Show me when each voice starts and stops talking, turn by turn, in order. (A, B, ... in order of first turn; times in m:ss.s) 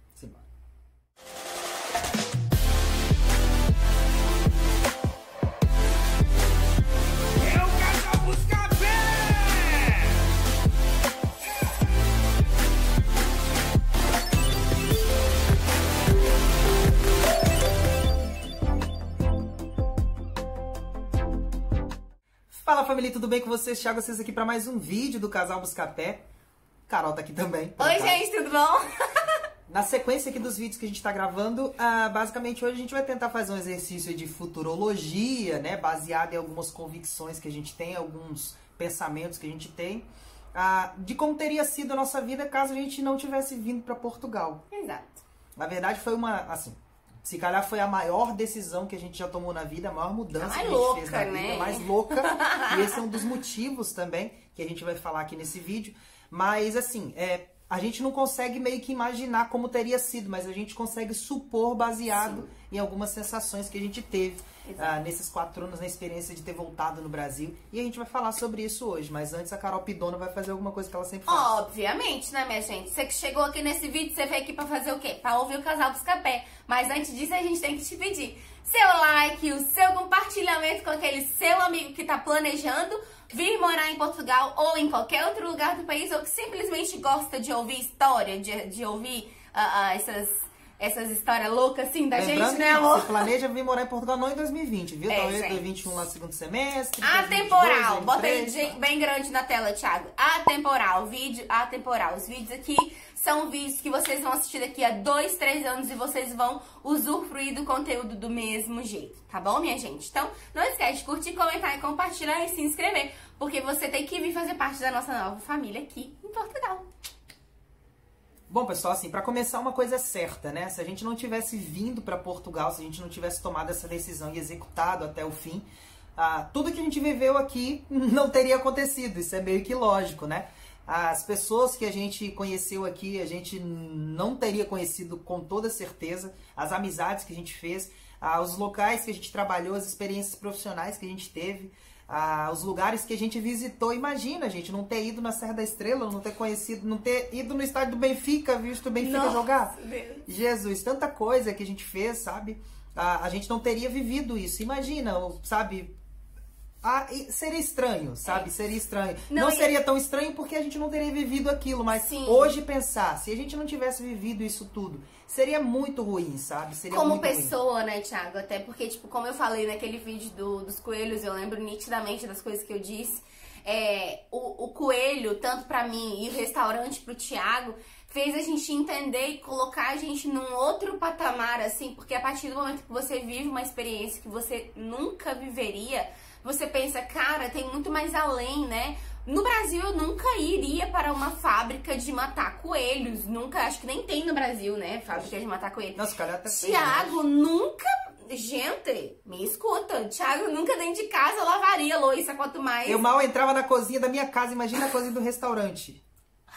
0:00.2-0:00.4 A
0:07.4-0:10.2 A
0:22.5-0:26.3 A
0:26.9-0:28.2 A
0:27.8-0:29.3 B
0:29.7-0:44.6 A
0:44.7-0:45.2 B
0:45.6-1:11.5 A
0:50.3-0:53.0 B
1:02.1-1:02.5 B
1:04.6-1:04.9 B
1:11.3-1:33.3 B
1:32.1-1:38.8 A
1:35.1-1:35.6 B
1:37.0-1:56.8 B
1:58.5-2:35.9 A
2:29.0-2:30.2 B
2:36.8-2:47.5 A
2:39.3-2:39.7 B
2:41.9-2:42.5 B
2:46.9-3:23.0 B
3:16.0-3:17.2 A
3:22.8-3:26.0 A